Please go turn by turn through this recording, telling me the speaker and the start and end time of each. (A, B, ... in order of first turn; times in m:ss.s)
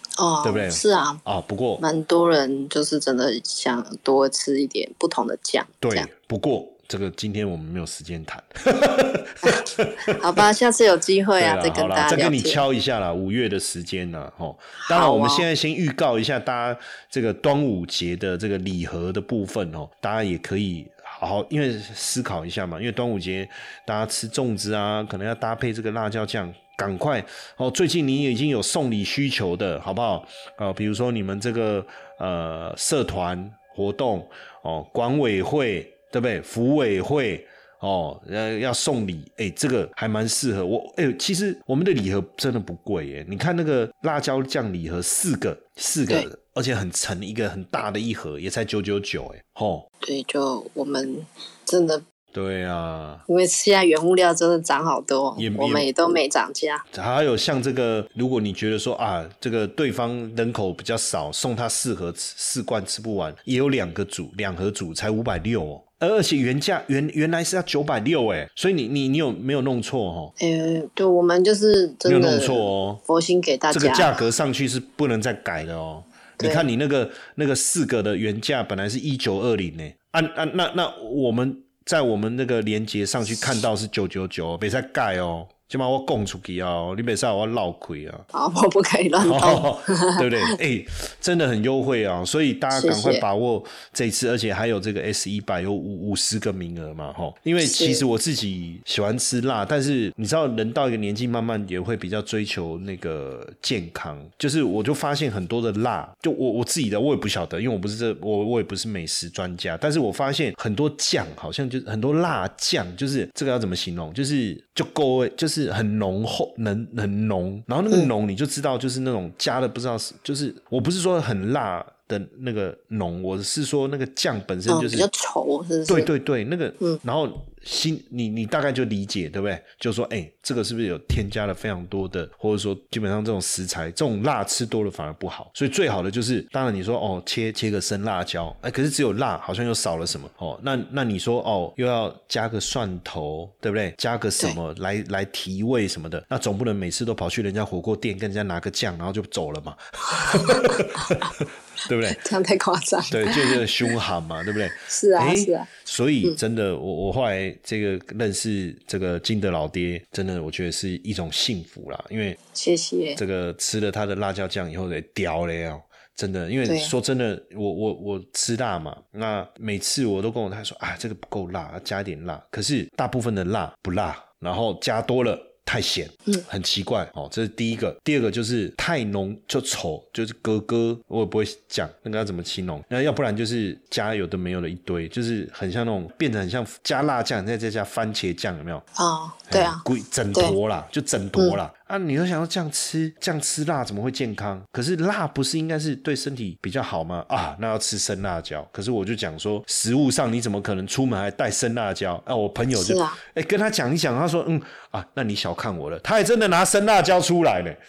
0:00.2-0:01.2 A
0:00.4-0:01.8 B
0:01.8-0:06.1 A
0:05.8-0:10.4 B
0:09.4-0:12.6 A
0:11.4-0:49.9 B
0:14.8-0:15.5 A
0:50.0-0:52.0 A
0:52.3-0:53.2 B
0:53.3-0:56.8 A
0:55.4-0:55.9 B
0:56.9-1:10.3 B
1:10.4-1:14.2 A
1:12.0-1:13.0 B
1:13.7-1:28.3 B
1:16.4-1:16.6 A
1:28.3-1:30.6 A
1:29.2-2:05.1 B
1:32.7-1:33.2 A
1:37.6-1:38.0 A
2:04.7-2:06.1 A
2:05.9-2:32.2 B
2:30.1-2:31.2 A
2:32.1-2:33.6 A
2:33.1-2:42.4 B
2:34.9-2:35.7 A
2:42.5-2:43.2 A
2:43.2-3:08.8 B
2:46.7-2:46.9 A
3:09.0-3:10.6 A
3:09.5-3:27.8 B
3:22.8-3:23.2 A